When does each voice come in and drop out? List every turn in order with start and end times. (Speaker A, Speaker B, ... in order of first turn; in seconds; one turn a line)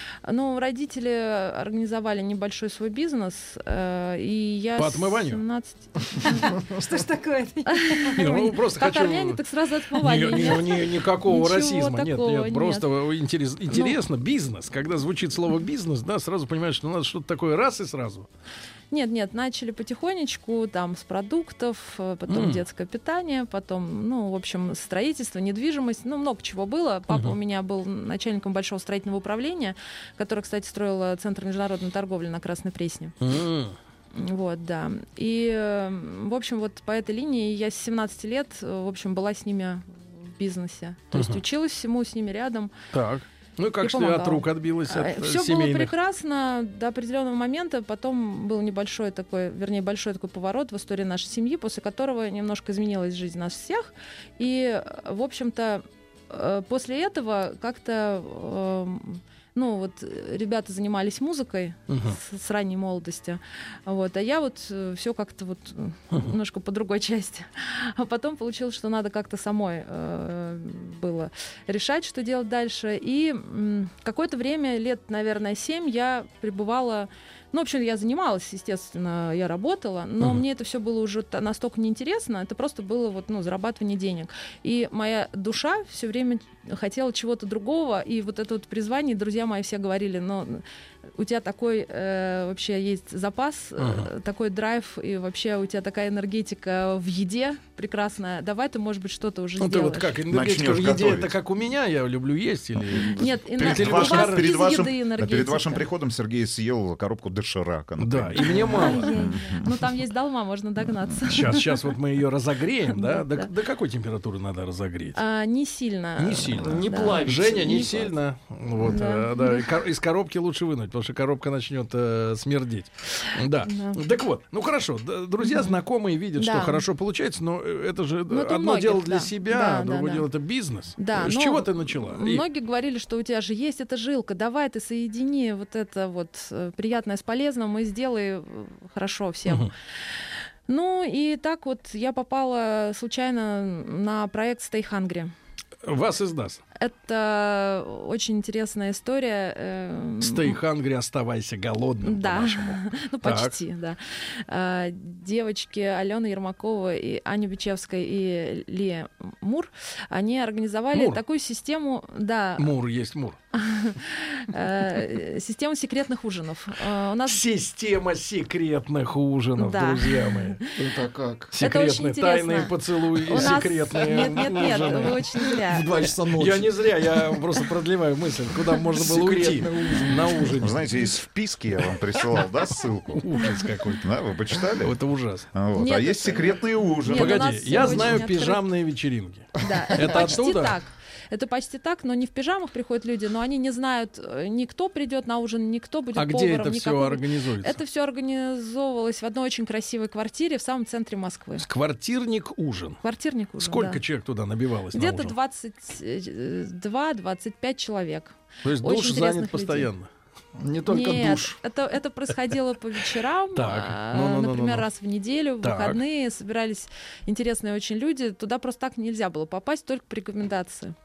Speaker A: 0.2-6.6
Speaker B: 4.8-5.4
Speaker C: 6.2-8.3
Speaker A: 7.7-12.9
Speaker B: 8.2-9.4
Speaker B: 9.9-18.3
Speaker A: 13.7-14.0
Speaker A: 18.9-33.1
Speaker B: 22.3-22.6
Speaker B: 27.1-27.4
Speaker B: 33.2-33.8
Speaker A: 34.1-42.7
Speaker B: 41.1-41.4
Speaker B: 42.9-45.9
Speaker A: 43.8-90.6
Speaker B: 61.9-62.2
Speaker A: 91.2-100.2
Speaker B: 93.8-94.1
Speaker B: 99.6-104.7
Speaker D: 100.3-101.3
Speaker A: 103.0-105.8
Speaker D: 103.5-109.8
Speaker B: 108.0-109.2
Speaker A: 108.7-111.9
Speaker B: 111.2-115.2
Speaker A: 112.9-113.5
Speaker A: 115.1-117.3
Speaker B: 116.2-132.4
Speaker E: 116.6-118.1
Speaker A: 118.8-119.8
Speaker A: 123.6-124.0
Speaker A: 125.4-125.8
Speaker A: 126.4-126.8
Speaker A: 128.3-130.2
Speaker A: 131.0-139.7
Speaker A: 140.7-145.3
Speaker B: 145.8-146.6
Speaker A: 146.8-150.6
Speaker B: 150.2-153.5
Speaker A: 152.0-162.7
Speaker B: 160.9-161.2
Speaker B: 162.6-163.4
Speaker A: 163.5-167.4
Speaker B: 167.2-170.6
Speaker A: 169.6-170.7
Speaker E: 170.8-171.5
Speaker B: 171.5-175.2
Speaker A: 171.6-175.9
Speaker E: 174.0-177.4
Speaker B: 176.2-181.0
Speaker E: 178.9-180.6
Speaker D: 180.6-183.3
Speaker B: 183.1-184.1
Speaker D: 184.0-185.0
Speaker B: 184.8-185.5
Speaker D: 185.5-187.8
Speaker A: 185.8-188.7
Speaker B: 187.1-190.8
Speaker A: 189.6-201.6
Speaker B: 196.2-197.8
Speaker B: 201.6-203.0
Speaker A: 203.0-204.0
Speaker B: 203.6-205.3
Speaker A: 204.9-209.9
Speaker B: 208.6-210.1
Speaker E: 210.6-211.5
Speaker A: 210.9-220.9
Speaker B: 213.5-214.9
Speaker B: 215.6-216.0